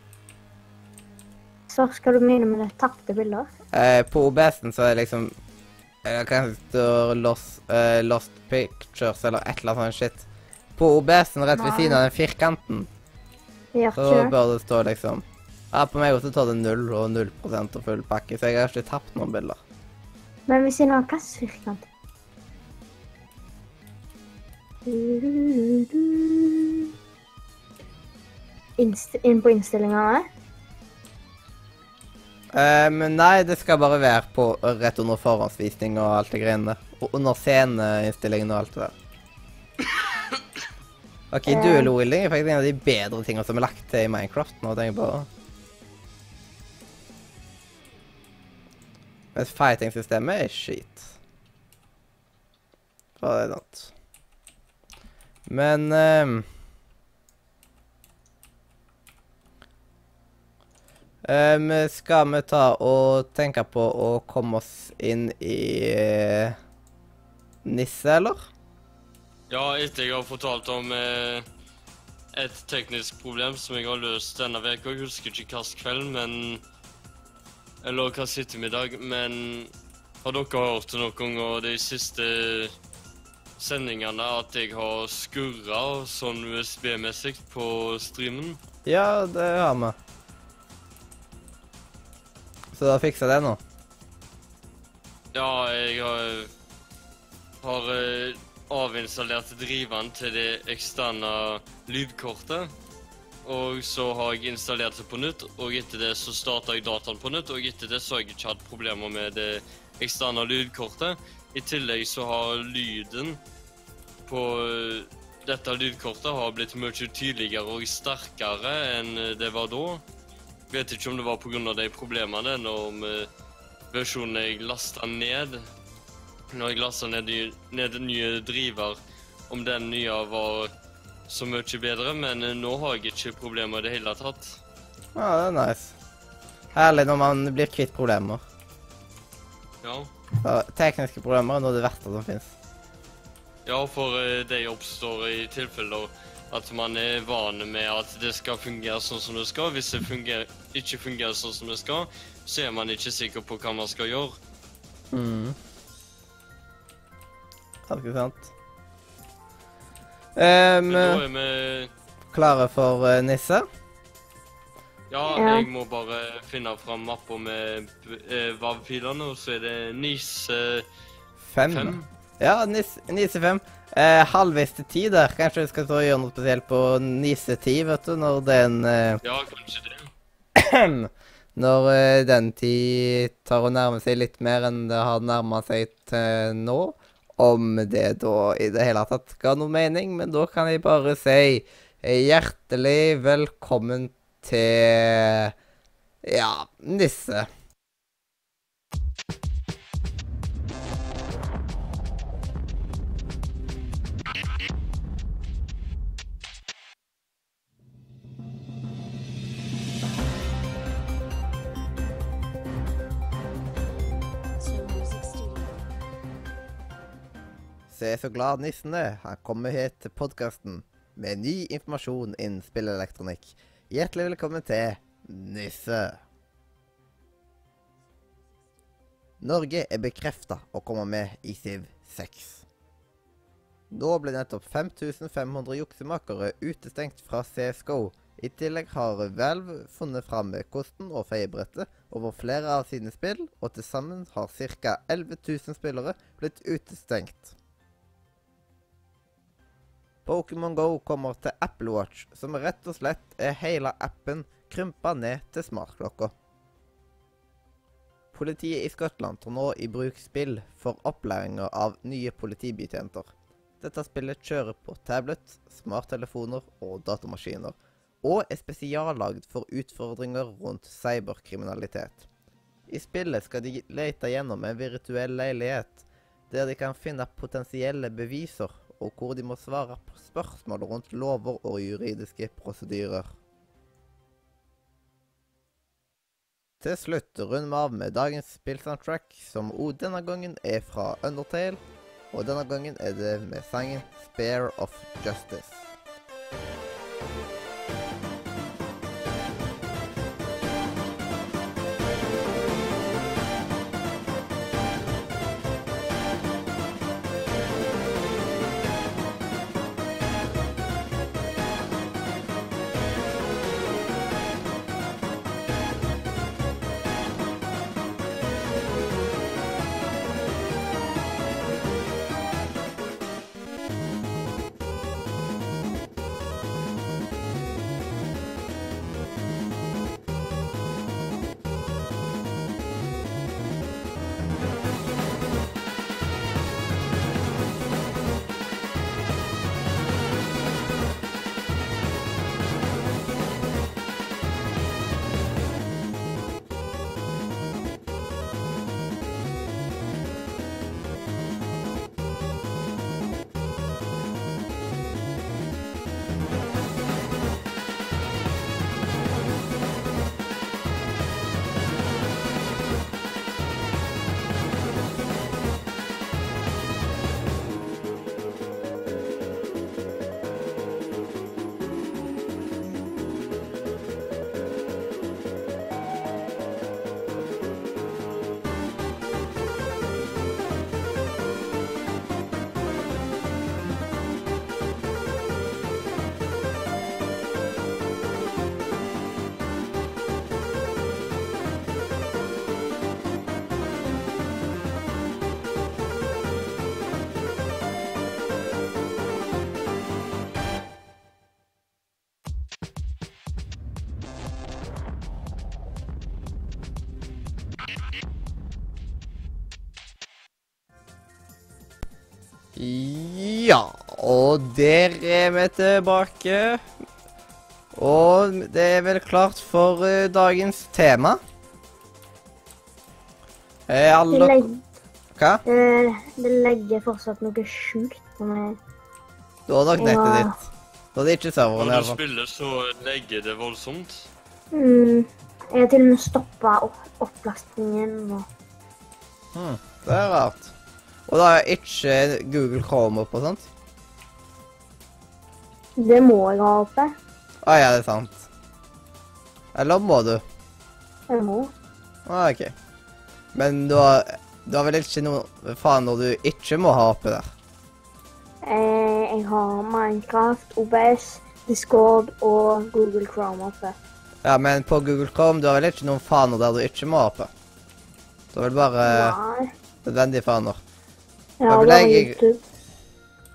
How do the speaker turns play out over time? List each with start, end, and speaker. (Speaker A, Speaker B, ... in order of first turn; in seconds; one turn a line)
Speaker A: 1.7-3.5
Speaker B: 3.7-5.3
Speaker B: 6.0-10.2
Speaker B: 10.8-12.9
Speaker A: 11.6-12.0
Speaker A: 13.7-14.3
Speaker B: 14.0-19.6
Speaker A: 20.5-21.9
Speaker A: 24.9-26.9
Speaker A: 28.8-30.3
Speaker B: 32.5-38.9
Speaker C: 39.9-40.4
Speaker B: 41.3-45.3
Speaker A: 41.5-41.9
Speaker B: 49.4-51.1
Speaker B: 53.2-53.9
Speaker B: 55.5-56.5
Speaker B: 61.2-66.6
Speaker B: 67.7-68.5
Speaker C: 69.5-71.5
Speaker C: 72.3-76.6
Speaker C: 77.8-79.7
Speaker C: 80.2-82.7
Speaker C: 83.6-88.6
Speaker B: 88.9-90.0
Speaker B: 92.7-93.6
Speaker C: 95.3-96.5
Speaker C: 97.6-102.7
Speaker C: 103.5-113.4
Speaker C: 114.3-120.0
Speaker C: 120.7-123.3
Speaker C: 123.9-125.7
Speaker C: 126.5-129.0
Speaker C: 129.5-130.7
Speaker C: 131.3-134.6
Speaker B: 135.2-135.9
Speaker B: 136.8-138.4
Speaker C: 139.8-140.1
Speaker B: 140.4-142.5
Speaker C: 143.7-154.4
Speaker B: 155.1-155.6
Speaker B: 157.9-158.5
Speaker B: 160.4-161.2
Speaker C: 160.9-161.9
Speaker B: 162.3-163.7
Speaker C: 165.1-170.9
Speaker A: 165.3-165.7
Speaker B: 171.4-179.2
Speaker C: 171.7-172.1
Speaker C: 179.2-180.1
Speaker B: 180.6-195.5
Speaker B: 196.2-197.5
Speaker B: 217.9-226.2
Speaker B: 229.4-232.7
Speaker B: 233.9-247.5
Speaker B: 250.3-256.3
Speaker B: 258.3-272.3
Speaker B: 272.9-283.3
Speaker B: 286.8-291.8
Speaker B: 292.3-295.8
Speaker B: 412.8-416.8
Speaker B: 417.9-421.4
Speaker B: 423.9-424.6
Speaker A: 424.3-424.8
Speaker B: 425.4-425.6
Speaker A: 425.7-428.8
Speaker B: 429.7-432.2
Speaker A: 430.0-430.6
Speaker C: 431.8-434.3
Speaker A: 434.7-438.5
Speaker B: 439.6-440.7
Speaker B: 441.3-443.7
Speaker A: 446.0-447.1
Speaker B: 447.6-448.5
Speaker B: 449.8-450.4
Speaker A: 451.3-451.7
Speaker B: 452.3-452.7
Speaker B: 453.5-457.5
Speaker A: 458.6-464.0
Speaker B: 464.4-467.5
Speaker B: 468.5-469.4
Speaker A: 469.1-469.7
Speaker B: 470.1-470.8
Speaker A: 471.6-472.6
Speaker B: 471.7-472.4